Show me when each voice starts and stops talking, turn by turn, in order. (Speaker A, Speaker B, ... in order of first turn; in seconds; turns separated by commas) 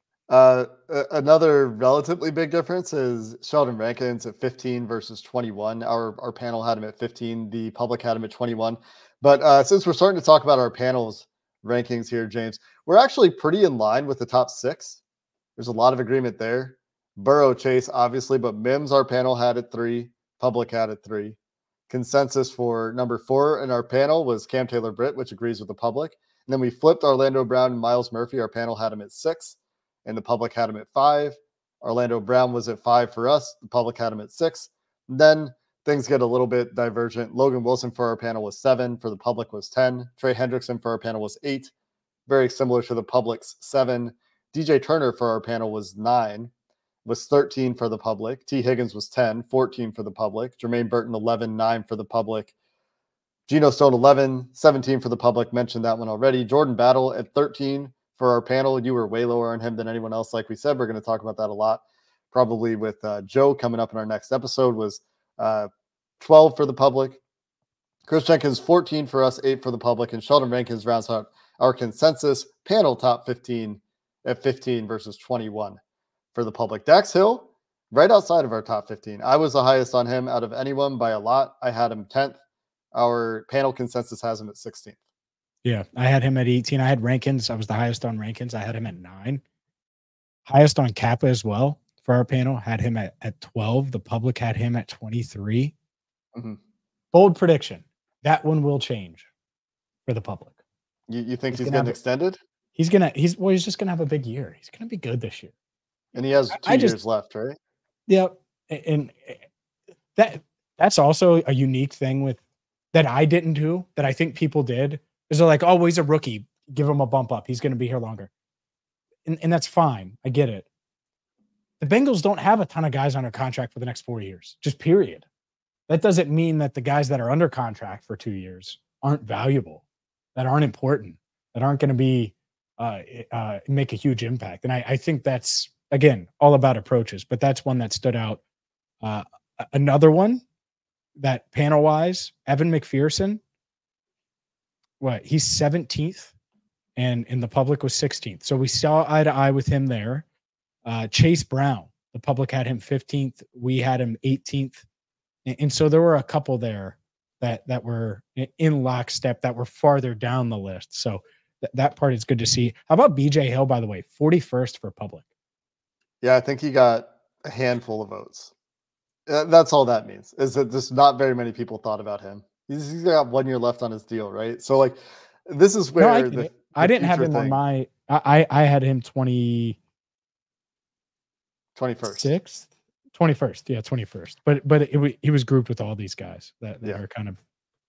Speaker A: 0.3-15.0, Speaker A: 15.6-21.4, Speaker A: 21.9-41.7, Speaker A: 42.3-46.5, Speaker A: 47.1-52.5, Speaker A: 53.5-65.7, Speaker A: 66.2-67.2, Speaker A: 68.1-75.8, Speaker A: 76.3-82.4, Speaker A: 82.9-85.0, Speaker B: 85.6-89.4, Speaker B: 90.5-95.7, Speaker B: 97.1-99.3, Speaker B: 100.1-100.6, Speaker A: 101.1-102.4, Speaker B: 101.5-102.0, Speaker B: 102.8-105.5, Speaker A: 106.1-107.6, Speaker B: 106.5-107.0, Speaker B: 108.1-109.4, Speaker B: 110.2-112.4, Speaker B: 112.9-118.3, Speaker B: 119.2-120.7, Speaker B: 121.8-125.2, Speaker B: 125.9-129.8, Speaker B: 130.3-138.4, Speaker B: 139.0-140.4, Speaker B: 141.2-143.4, Speaker B: 145.0-146.3, Speaker B: 147.0-150.2, Speaker B: 150.8-154.8, Speaker B: 155.4-165.2, Speaker A: 166.2-168.5, Speaker A: 169.3-177.6, Speaker B: 176.0-179.8, Speaker A: 181.8-182.3, Speaker B: 182.1-187.4